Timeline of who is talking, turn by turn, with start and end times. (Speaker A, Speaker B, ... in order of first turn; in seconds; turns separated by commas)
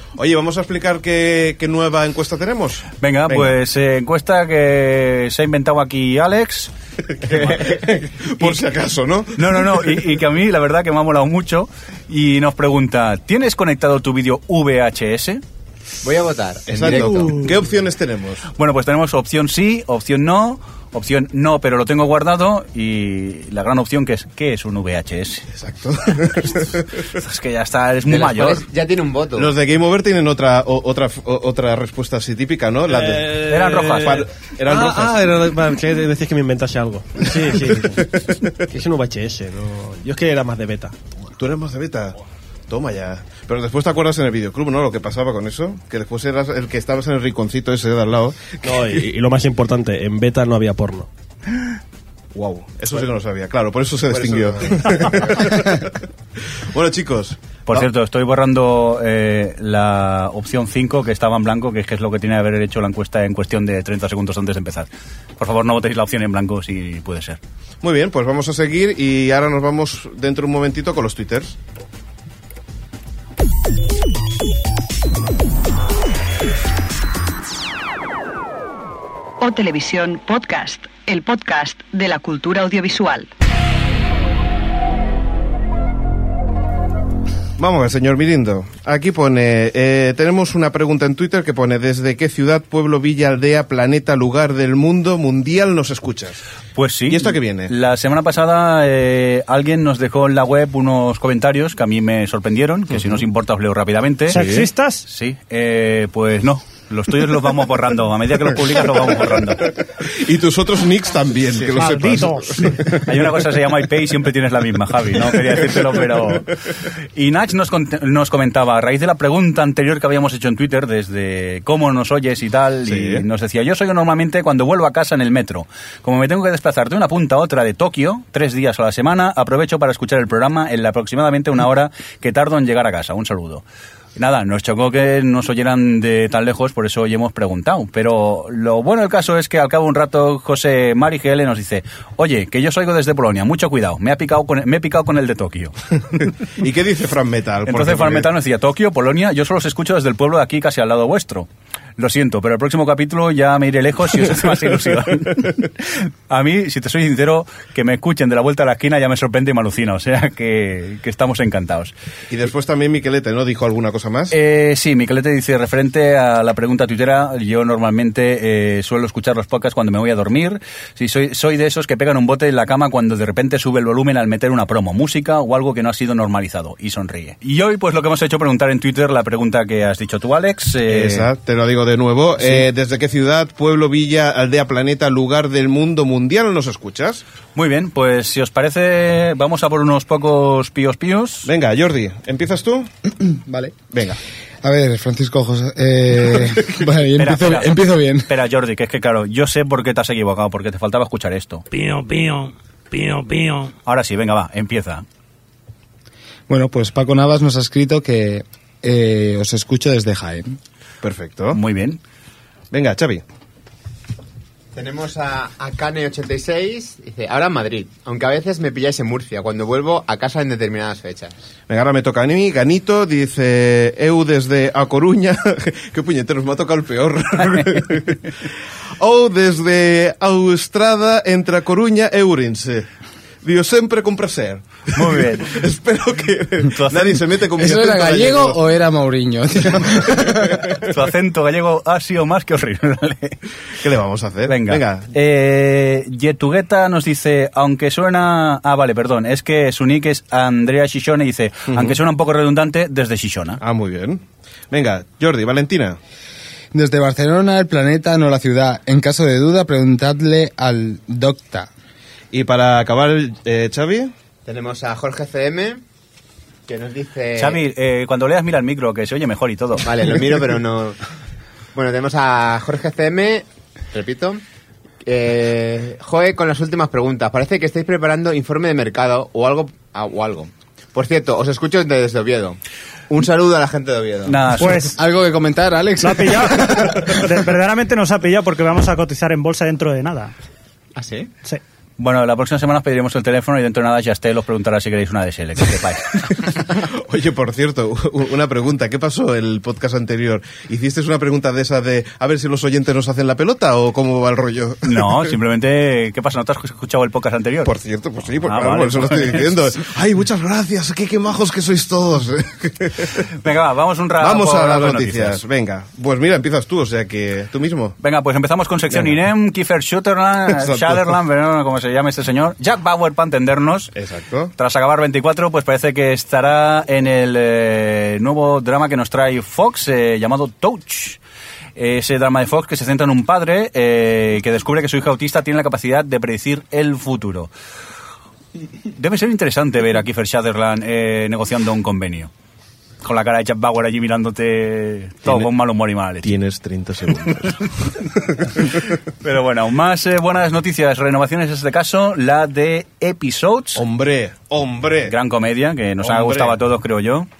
Speaker A: 0.2-3.5, Speaker B: 3.0-6.7, Speaker A: 7.1-10.2, Speaker B: 7.3-7.5, Speaker B: 9.3-15.4, Speaker C: 16.0-17.6, Speaker A: 16.7-18.5, Speaker B: 18.6-25.5, Speaker A: 25.5-27.1, Speaker B: 27.1-28.6, Speaker C: 28.1-29.5, Speaker A: 29.4-33.4, Speaker D: 32.9-38.1, Speaker B: 33.4-34.2, Speaker A: 34.0-35.3, Speaker A: 37.9-38.6, Speaker D: 38.7-41.0, Speaker A: 41.4-48.9, Speaker D: 48.6-51.1, Speaker A: 52.3-56.0, Speaker C: 54.5-55.0, Speaker A: 56.6-57.9, Speaker B: 57.7-67.4, Speaker A: 67.8-71.5, Speaker E: 79.4-83.3, Speaker A: 87.6-96.4, Speaker B: 96.7-104.5, Speaker A: 97.1-97.7, Speaker F: 104.3-105.0, Speaker A: 104.3-104.7, Speaker B: 105.1-109.7, Speaker A: 110.0-113.2, Speaker F: 111.8-112.8, Speaker B: 113.0-116.5, Speaker A: 115.5-115.8, Speaker B: 117.2-133.6, Speaker A: 122.8-123.2, Speaker B: 134.2-146.3, Speaker A: 146.6-148.3, Speaker B: 147.7-151.5, Speaker B: 152.0-161.9, Speaker A: 162.3-164.3, Speaker B: 164.3-181.3, Speaker A: 180.8-187.2, Speaker B: 187.5-191.5, Speaker A: 191.4-192.9, Speaker G: 193.3-193.8, Speaker G: 194.6-198.3, Speaker B: 197.2-201.7, Speaker H: 201.7-203.7, Speaker B: 203.8-205.0, Speaker G: 206.5-210.6, Speaker A: 211.0-211.6, Speaker B: 211.5-212.0, Speaker A: 212.7-213.2, Speaker C: 214.7-221.4, Speaker A: 221.7-228.3, Speaker A: 229.0-232.9, Speaker A: 233.4-238.6, Speaker B: 234.9-235.6, Speaker B: 236.7-237.2, Speaker G: 237.6-240.7, Speaker B: 240.8-243.4, Speaker A: 243.8-245.1, Speaker B: 244.5-253.6, Speaker A: 251.7-252.0, Speaker A: 253.6-256.0, Speaker G: 256.7-261.7, Speaker A: 262.3-264.1, Speaker C: 264.4-265.8, Speaker C: 266.7-267.6, Speaker B: 267.4-269.9, Speaker C: 269.8-271.0, Speaker C: 271.8-274.4, Speaker C: 275.0-282.6, Speaker C: 283.1-284.4, Speaker B: 284.3-284.9, Speaker F: 284.6-285.0, Speaker G: 285.0-287.1, Speaker F: 286.0-290.3, Speaker C: 290.9-291.3, Speaker B: 292.0-296.3, Speaker A: 296.8-305.3, Speaker B: 304.8-307.7, Speaker A: 307.6-313.3, Speaker B: 308.4-309.7, Speaker B: 313.4-315.4, Speaker A: 314.2-317.9, Speaker B: 318.0-323.9, Speaker A: 318.9-319.2, Speaker A: 320.5-321.1, Speaker A: 323.9-324.5, Speaker B: 324.6-331.2, Speaker B: 331.8-337.5, Speaker B: 338.9-342.3, Speaker B: 343.0-346.3, Speaker A: 346.2-348.8, Speaker B: 349.2-353.8, Speaker A: 353.8-355.1, Speaker B: 355.1-357.3, Speaker A: 356.0-356.6